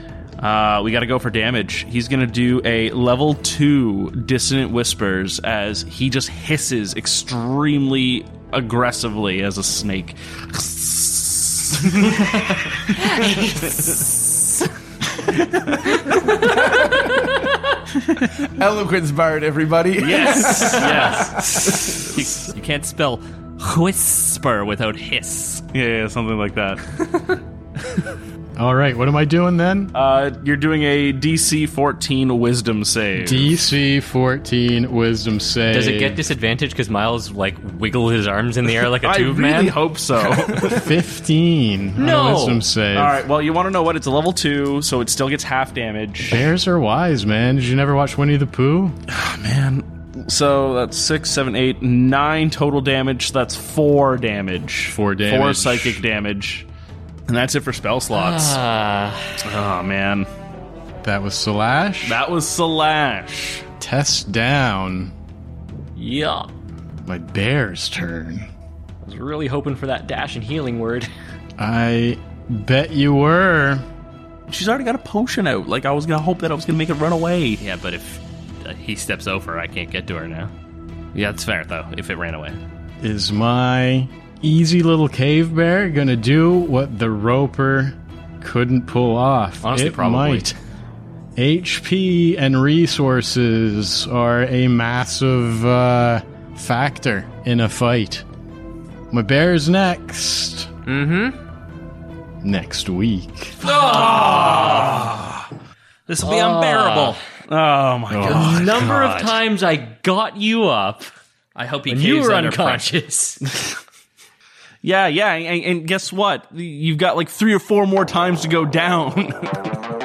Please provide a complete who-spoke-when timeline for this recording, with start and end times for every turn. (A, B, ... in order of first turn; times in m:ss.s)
0:00.4-0:13.9 A
0:13.0-0:14.6 B
0:15.4-0:15.9 A
0:16.0-0:17.5 B
0:16.4-0:17.0 C
0:18.4-0:21.0 C
0:20.0-0:21.9 A
0:20.1-0:22.1 B
0:20.2-0:25.7 D
0:25.7-0:27.0 A
0:28.6-0:29.9 E
0:29.9-0:33.6 A
0:33.2-0:36.2 E
0:35.7-0:39.8 B
0:38.9-0:40.9 A
0:40.6-0:43.2 E
0:42.0-0:42.6 B
0:42.9-0:46.5 A
0:46.2-0:49.0 E
0:49.1-0:56.7 A
0:54.9-0:56.0 E
0:57.3-0:58.6 A
0:58.1-0:59.4 B
0:59.4-1:00.3 A
1:01.0-1:02.2 E
1:02.0-1:03.7 A
1:03.8-1:05.1 E
1:05.9-1:06.5 B
1:07.0-1:08.5 E
1:09.0-1:11.1 B
1:11.6-1:13.8 E
1:14.5-1:17.6 A
1:17.6-1:20.5 D
1:21.1-1:22.6 D
1:23.0-1:30.6 E
1:29.6-1:30.5 B
1:31.4-1:38.2 E
1:39.1-1:40.7 E
1:40.8-1:41.4 B
1:42.4-1:43.6 E
1:43.6-1:45.2 B
1:43.8-1:45.4 A
1:46.1-1:47.2 D
1:46.2-1:47.2 B
1:47.5-1:49.3 A
1:48.1-1:48.9 E
1:48.2-1:51.1 B
1:51.5-1:52.9 D
1:51.9-1:53.4 B
1:54.8-1:59.8 A